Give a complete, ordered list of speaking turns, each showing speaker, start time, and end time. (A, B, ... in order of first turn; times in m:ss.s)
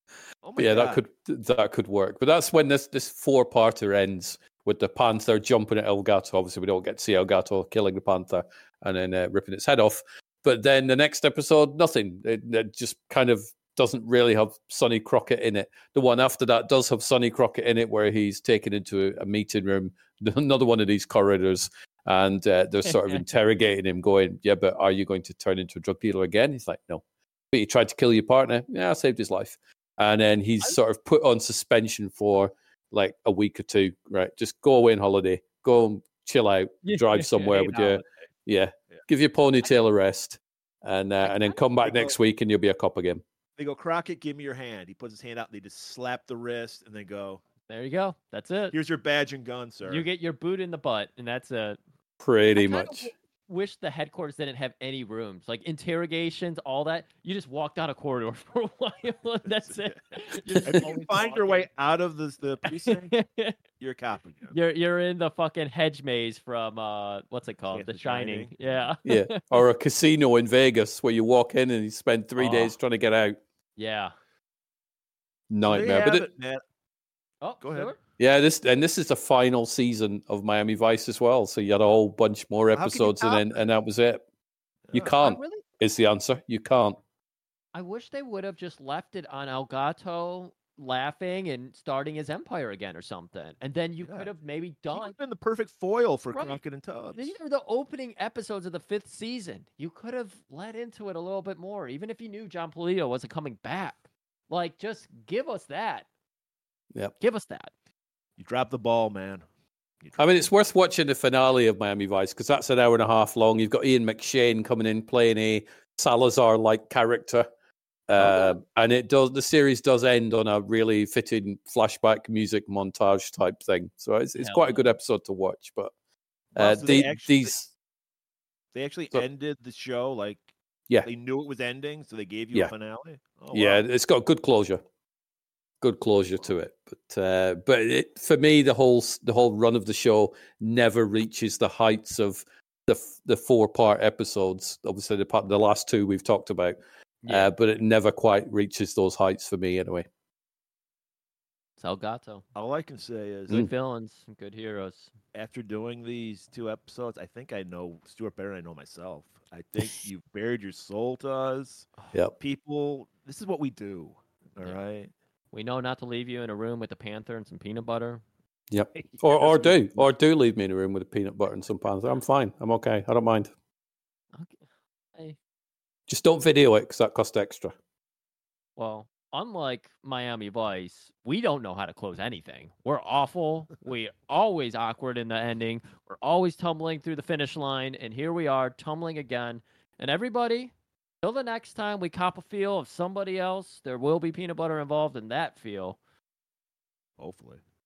0:00.4-0:01.0 A
0:00.6-0:43.2 B
0:22.8-0:23.2 C
0:36.8-0:38.0 C
0:41.2-0:41.6 C
0:41.8-0:42.2 A
0:43.6-0:47.4 A
0:47.7-0:48.8 C
0:48.7-0:50.1 A
0:49.8-0:51.8 C
0:52.2-0:53.1 B
0:52.6-1:01.7 C
0:59.5-1:00.0 A
1:00.6-1:03.2 A
1:02.7-1:03.6 C
1:03.8-1:04.6 A
1:04.5-1:09.6 C
1:07.7-1:08.9 A
1:09.0-1:13.4 B
1:12.4-1:12.8 C
1:13.8-1:14.1 C
1:15.5-1:16.3 B
1:15.7-1:16.6 A
1:17.4-1:18.0 C
1:17.6-1:17.9 A
1:18.2-1:24.2 B
1:22.7-1:23.6 A
1:24.9-1:25.1 A
1:24.9-1:27.0 B
1:25.0-1:25.6 C
1:27.7-1:35.2 C
1:34.0-1:34.3 A
1:34.9-1:37.4 A
1:36.3-1:46.1 C
1:47.2-1:47.7 C
1:48.4-1:49.4 A
1:50.0-1:50.5 A
1:50.2-1:57.5 B
1:58.1-2:05.9 B
1:58.2-1:58.6 C
2:04.4-2:04.9 C
2:06.6-2:07.5 A
2:06.6-2:07.7 B
2:08.7-2:10.5 A
2:11.0-2:13.8 A
2:13.5-2:14.8 B
2:15.8-2:30.1 B
2:27.2-2:27.5 C
2:31.8-2:32.4 C
2:32.6-2:33.7 A
2:33.5-2:35.1 C
2:35.3-2:45.1 A
2:45.5-2:48.2 C
2:48.7-2:53.5 B
2:49.0-2:50.1 A
2:54.4-2:54.6 C
2:56.1-2:57.7 B
2:58.8-3:16.0 C
3:17.2-3:17.6 A